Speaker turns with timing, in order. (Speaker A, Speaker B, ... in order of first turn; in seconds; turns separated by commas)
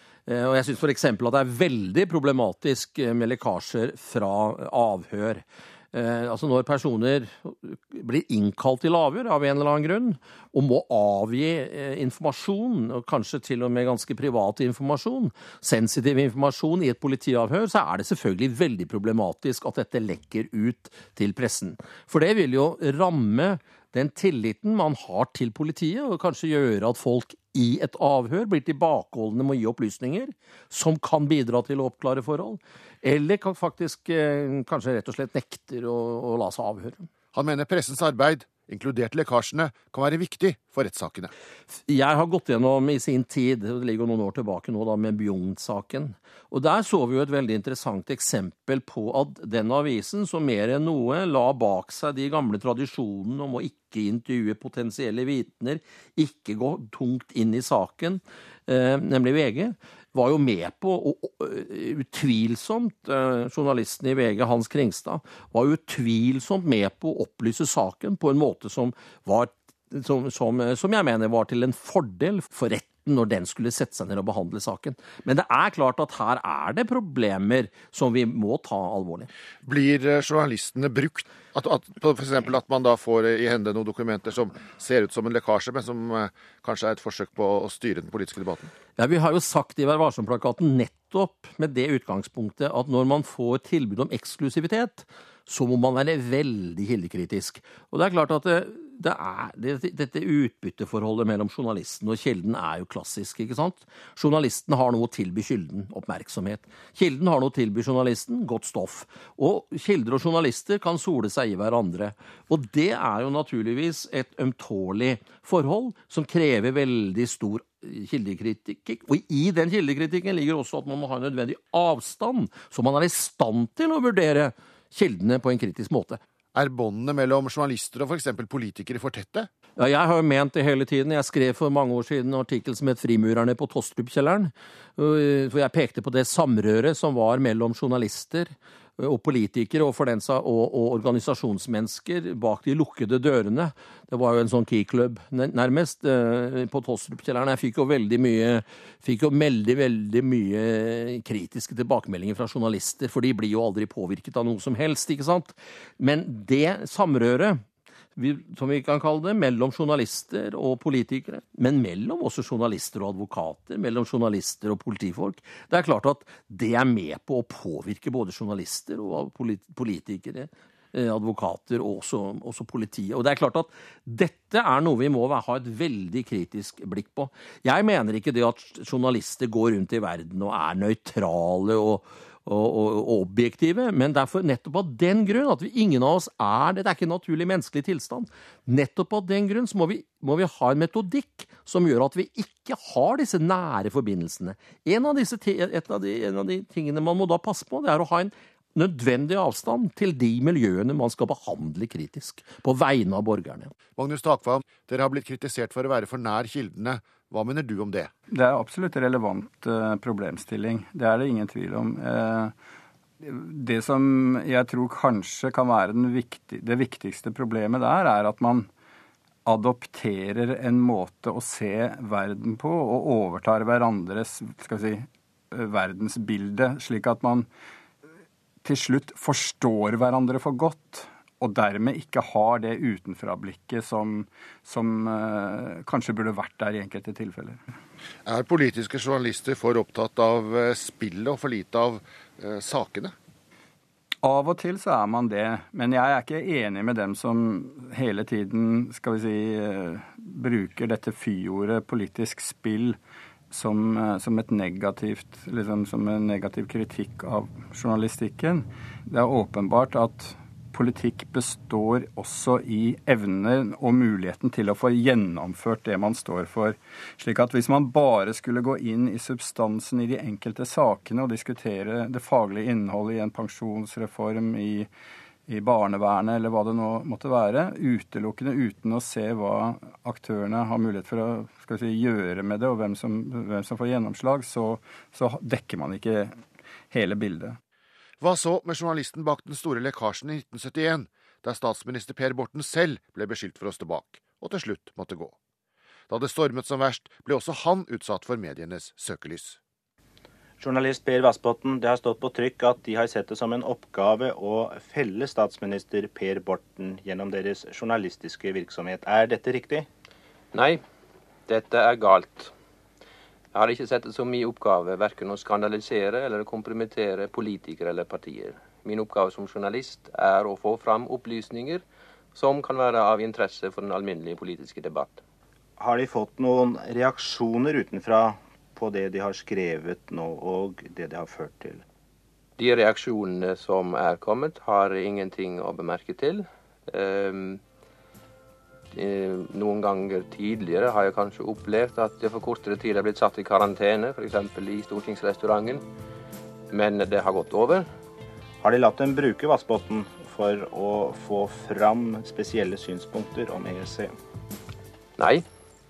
Speaker A: 0.3-37.1, Speaker B: 37.3-41.3, Speaker A: 41.9-79.3, Speaker B: 79.6-88.7, Speaker A: 89.0-126.2, Speaker B: 126.5-129.5, Speaker A: 129.8-157.6, Speaker A: 158.2-203.7, Speaker B: 204.0-208.1, Speaker C: 208.3-212.6, Speaker C: 213.2-218.7, Speaker C: 219.5-227.5, Speaker C: 228.6-237.6, Speaker B: 238.3-243.1, Speaker C: 244.2-253.0, Speaker C: 253.5-274.9, Speaker C: 275.5-286.4, Speaker C: 286.9-287.6, Speaker B: 288.2-295.4, Speaker B: 296.1-299.6, Speaker D: 300.6-309.9, Speaker E: 310.5-310.8, Speaker E: 311.5-312.5, Speaker E: 313.5-321.8, Speaker E: 322.3-325.2, Speaker D: 325.8-331.8, Speaker E: 332.6-337.6, Speaker E: 338.9-345.8, Speaker E: 346.7-347.9, Speaker D: 348.6-354.1, Speaker E: 355.2-355.4